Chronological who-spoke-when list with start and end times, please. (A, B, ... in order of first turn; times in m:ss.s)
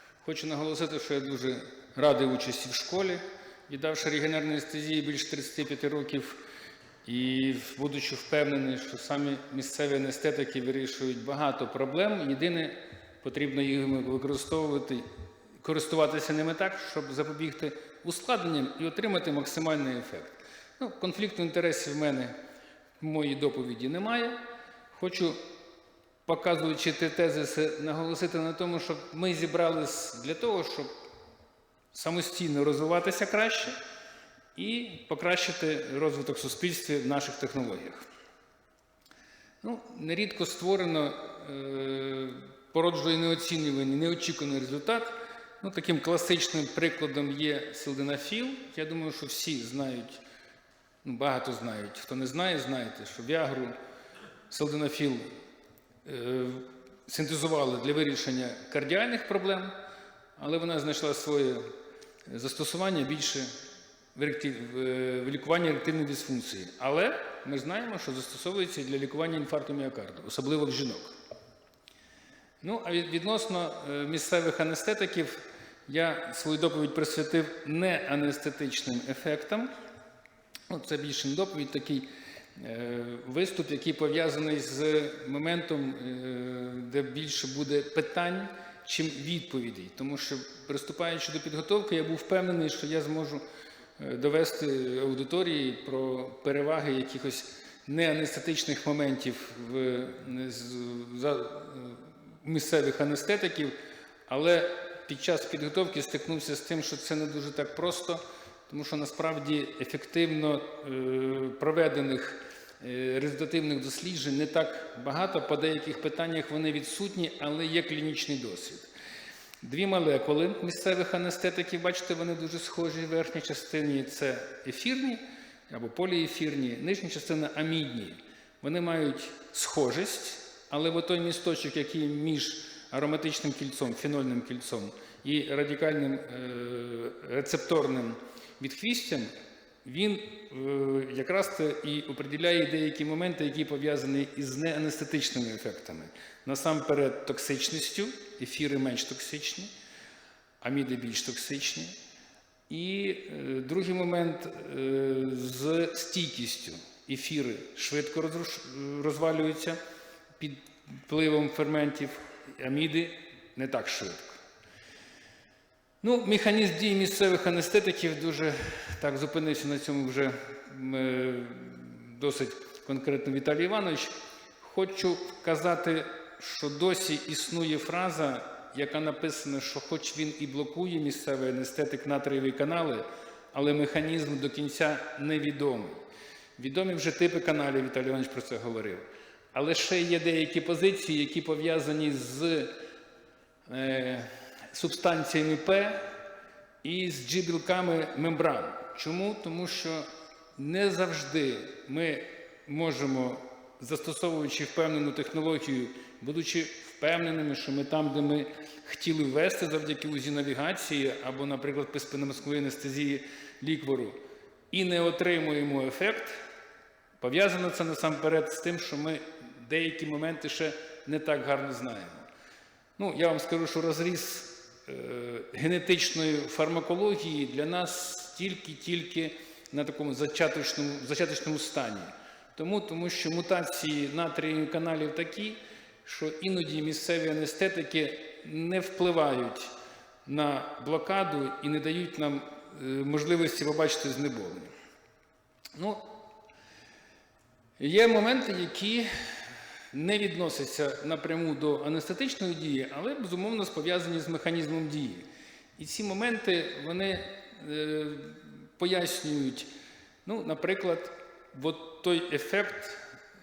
0:00.2-0:06.4 A
0:07.0-0:15.0 A
0:15.6-0:22.4 A
0:23.0-0:24.4 A
0:24.9-0:25.4 A
0:26.3-0:31.0 A
0:31.9-0:33.8 A
0:34.6-0:38.0 A
0:39.6-0:50.2 A
0:51.0-0:53.7 A
0:54.5-0:55.2 A
0:56.0-0:59.8 A
1:00.4-1:01.7 A
1:02.3-1:03.5 A
1:04.2-1:11.1 A
1:12.6-1:19.7 A
1:20.7-1:33.4 A
1:34.0-1:43.8 A
1:44.3-1:58.9 A
1:59.6-2:19.3 A
2:19.8-2:29.7 A
2:30.6-2:31.9 A
2:32.7-2:39.8 A
2:40.4-2:44.4 A
2:46.0-3:06.0 A
3:06.6-3:12.8 A
3:13.7-3:16.1 A
3:16.8-3:20.0 A
3:20.6-3:34.2 A
3:34.7-3:36.4 A
3:37.2-3:42.3 A
3:43.0-3:59.7 A
4:00.3-4:04.7 A
4:05.8-4:06.2 A
4:07.8-4:09.1 A
4:09.9-4:15.2 A
4:15.8-4:19.7 A
4:20.2-4:23.0 A